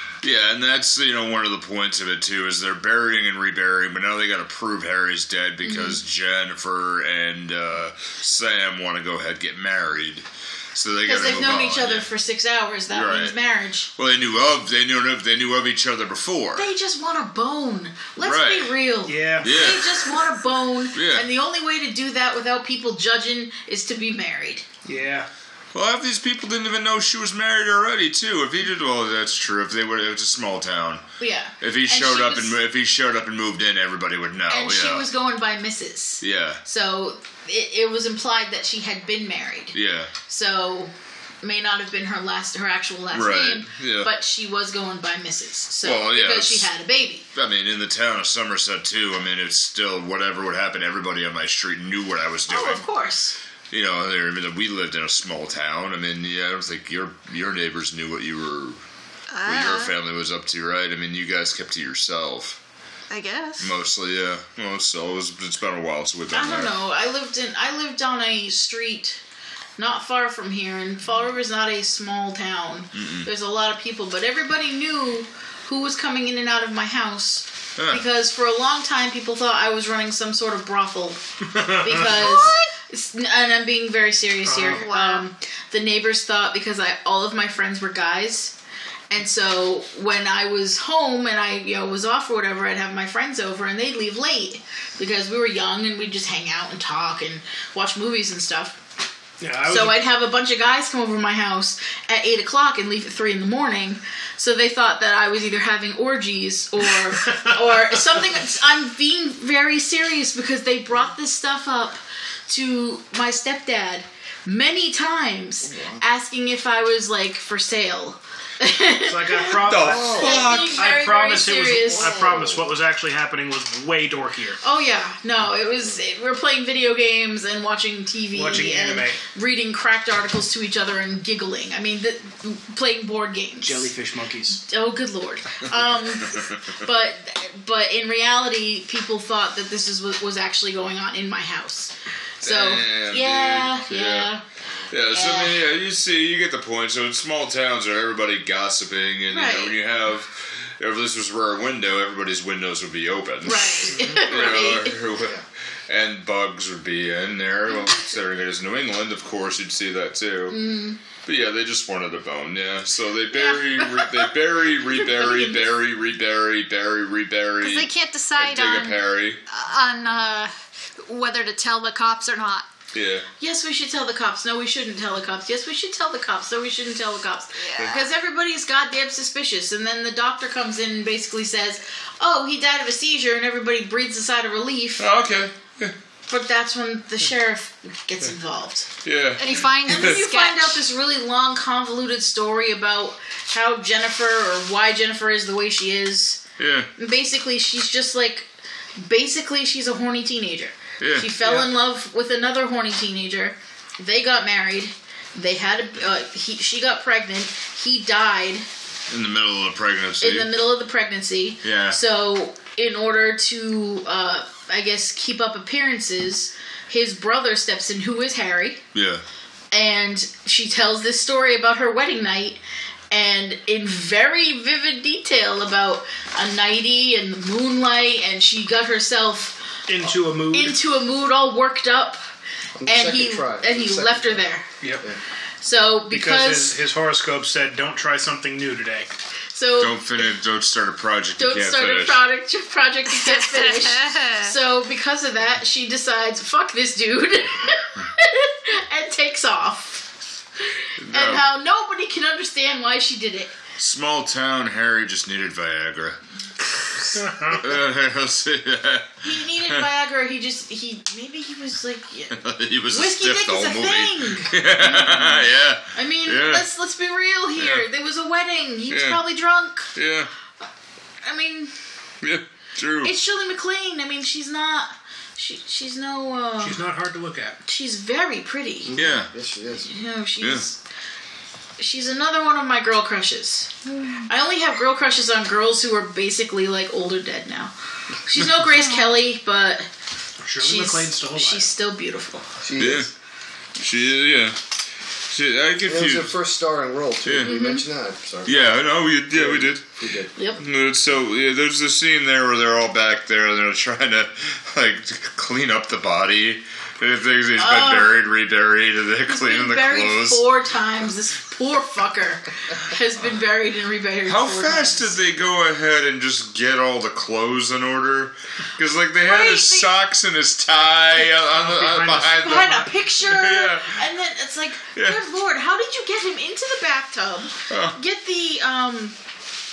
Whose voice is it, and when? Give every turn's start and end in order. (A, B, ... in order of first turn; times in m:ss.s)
0:00.2-0:12.1 A
0:05.6-0:06.0 B
0:11.0-0:13.9 B
0:12.9-0:13.3 A
0:14.0-0:16.7 A
0:16.6-0:24.6 B
0:18.2-0:18.7 A
0:19.0-0:19.8 C
0:19.4-0:20.2 A
0:20.9-0:21.2 A
0:24.8-0:25.3 C
0:25.7-0:31.0 A
0:31.2-0:32.6 B
0:31.6-0:35.1 A
0:34.5-0:39.8 B
0:36.2-0:36.6 A
0:39.7-0:40.1 A
0:40.3-0:47.3 B
0:43.1-0:44.1 A
0:45.8-0:46.7 A
0:47.4-0:52.8 A
0:52.5-0:53.4 B
0:53.7-0:58.8 A
0:59.3-1:00.0 D
0:59.5-1:02.6 A
1:03.1-1:03.7 D
1:03.6-1:06.7 A
1:06.3-1:09.2 B
1:09.8-1:28.6 B
1:12.9-1:13.3 A
1:17.8-1:18.0 A
1:21.5-1:22.4 C
1:22.2-1:22.7 D
1:24.5-1:24.8 C
1:24.6-1:25.3 D
1:29.1-1:38.8 B
1:39.4-1:40.0 C
1:39.7-2:02.4 B
1:47.2-1:48.0 C
1:55.7-1:56.0 E
1:59.1-2:04.6 C
1:59.6-2:00.9 A
1:59.8-2:00.4 E
2:01.9-2:02.7 E
2:04.6-2:13.9 B
2:08.3-2:09.2 C
2:13.6-2:14.6 C
2:14.5-2:24.4 B
2:22.4-2:24.3 A
2:24.9-2:40.6 A
2:25.1-2:25.6 B
2:29.3-2:29.8 B
2:33.4-2:35.0 B
2:40.5-2:41.0 B
2:41.2-2:49.4 A
2:43.3-2:45.8 B
2:47.6-2:52.7 D
2:52.9-2:53.3 A
2:53.4-3:05.0 B
2:57.6-2:58.0 D
3:05.0-3:06.0 A
3:06.3-3:08.9 B
3:09.0-3:10.2 A
3:09.4-3:10.8 D
3:09.8-3:16.4 B
3:16.6-3:16.9 A
3:17.0-3:28.7 B
3:21.0-3:21.3 A
3:21.4-3:21.7 C
3:29.1-3:30.5 A
3:30.2-3:38.8 B
3:31.6-3:32.0 A
3:38.9-3:39.2 A
3:39.7-3:42.6 B
3:43.1-3:49.6 B
3:49.9-3:50.8 C
3:50.5-3:52.2 B
3:52.8-3:54.5 E
3:52.9-3:54.7 B
3:55.6-3:56.8 B
3:56.1-3:59.1 C
3:59.5-4:00.1 B
3:59.8-4:02.2 A
4:01.4-4:10.1 B
4:03.1-4:04.5 D
4:10.6-4:13.5 B
4:11.0-4:11.5 A
4:13.8-4:16.2 A
4:17.0-4:17.7 C
4:17.6-4:19.8 A
4:19.2-4:29.9 B
4:22.3-4:26.7 A
4:27.6-4:27.8 A
4:28.9-4:29.2 A
4:30.0-4:30.3 A
4:31.2-4:31.7 B
4:32.2-4:33.1 A
4:33.0-4:36.8 B
4:36.6-4:37.6 C
4:37.6-4:39.0 B
4:38.8-4:39.9 E
4:39.0-4:39.3 A
4:39.8-4:40.8 B
4:41.8-4:43.7 B
4:43.9-4:44.2 D
4:44.3-4:49.9 B
4:50.4-4:51.7 C
4:50.6-4:52.5 B
4:52.6-4:53.1 E
4:52.8-4:53.1 A
4:53.8-4:54.6 A
4:55.3-4:56.3 A
4:55.8-5:00.3 E
4:57.2-4:57.5 A
4:57.4-4:57.8 B
4:58.5-4:59.9 A
5:00.4-5:00.6 B
5:00.6-5:10.5 A
5:07.6-5:08.2 B
5:09.3-5:15.1 B
5:14.3-5:24.0 A
5:19.2-5:19.9 B
5:21.5-5:22.9 C
5:22.2-5:29.2 B
5:25.0-5:25.2 A
5:27.7-5:28.0 A